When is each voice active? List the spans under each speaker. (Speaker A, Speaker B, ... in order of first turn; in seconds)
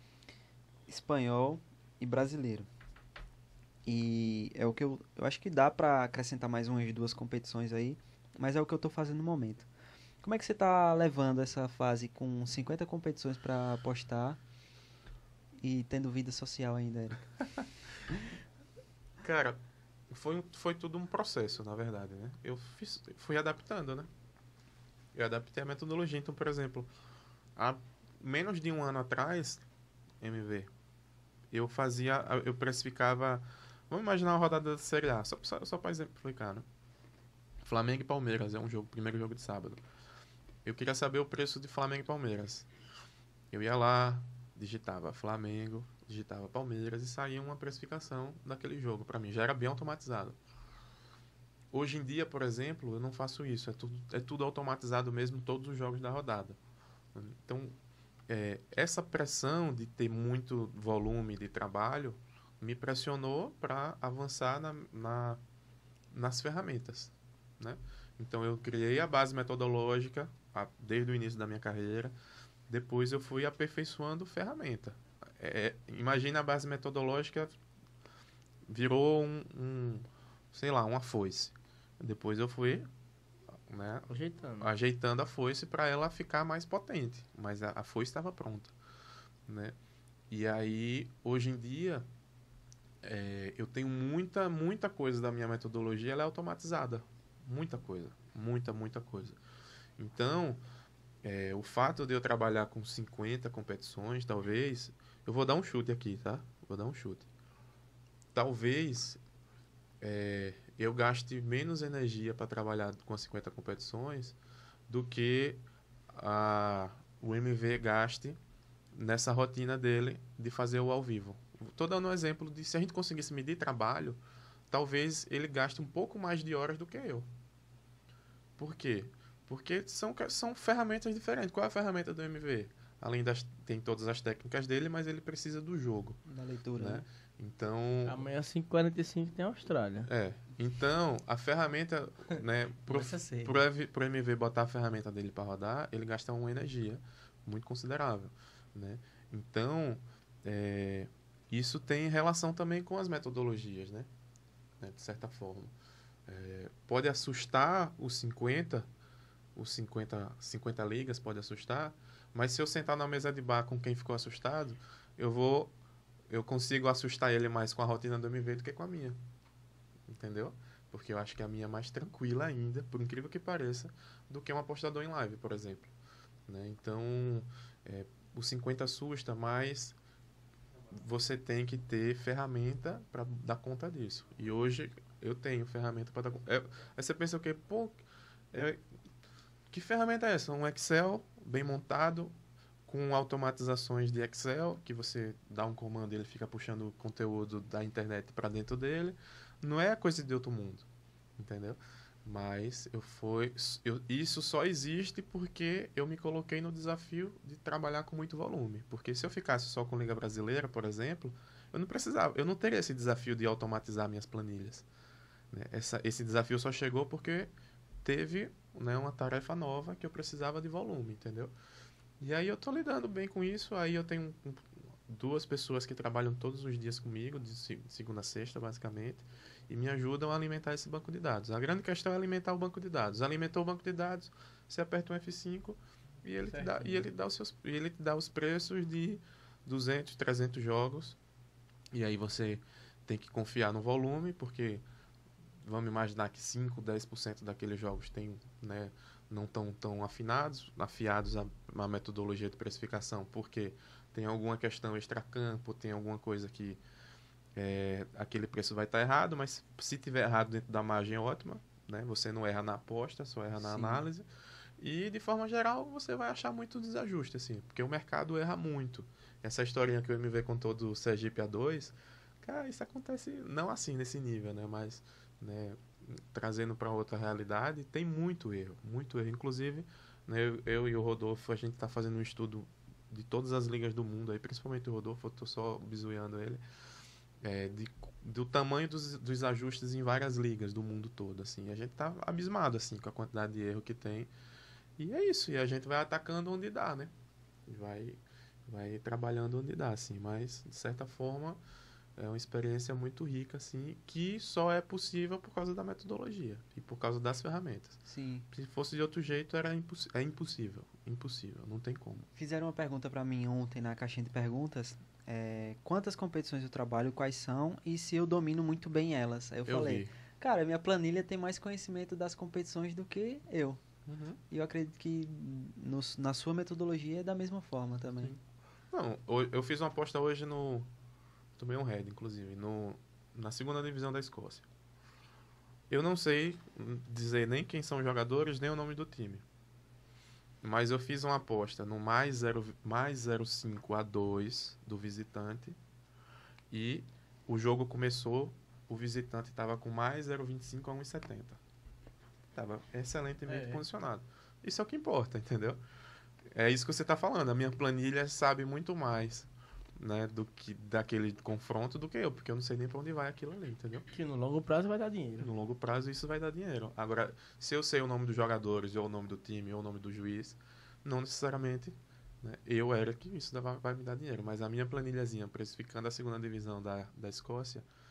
Speaker A: 0.9-2.7, 3.9-9.7, 10.2-14.4, 15.6-17.3, 136.3-137.1, 263.6-264.1, 308.1-308.5, 312.4-323.8, 324.5-328.3
Speaker B: 19.2-19.6, 20.1-24.1, 25.1-26.9, 27.6-29.6, 30.2-30.7, 31.5-36.7, 37.6-39.8, 40.6-42.7, 43.5-50.4, 51.7-56.6, 57.1-57.8, 58.3-65.4, 66.1-72.1, 72.7-77.6, 78.7-82.9, 83.7-84.1, 84.6-88.8, 89.5-89.8, 90.3-92.1, 93.0-99.4, 100.0-100.6, 101.2-107.3, 108.3-109.2, 110.0-114.4, 114.9-118.4, 118.9-127.3, 128.6-136.2, 136.8-138.2, 140.1-154.1, 154.8-155.7, 156.3-158.9, 159.6-165.7, 166.3-169.2, 170.1-175.9, 176.5-180.0, 180.9-188.0, 188.5-188.8, 189.7-192.3, 192.9-200.9, 201.4-214.9, 215.5-217.5, 218.0-221.5, 222.2-241.2, 241.9-244.8, 245.6-256.8, 257.6-264.3, 264.8-286.6, 287.4-294.3, 295.0-297.1, 297.7-301.6, 302.2-312.3, 319.7-320.1, 324.1-324.4, 328.9-330.9, 331.6-334.7, 335.9-339.4, 340.6-345.8, 346.7-351.6, 352.6-355.8, 356.5-364.1, 365.4-377.9
Speaker C: 84.1-84.7, 138.1-140.1, 142.9-143.6, 236.4-237.1, 353.5-353.8, 364.1-365.5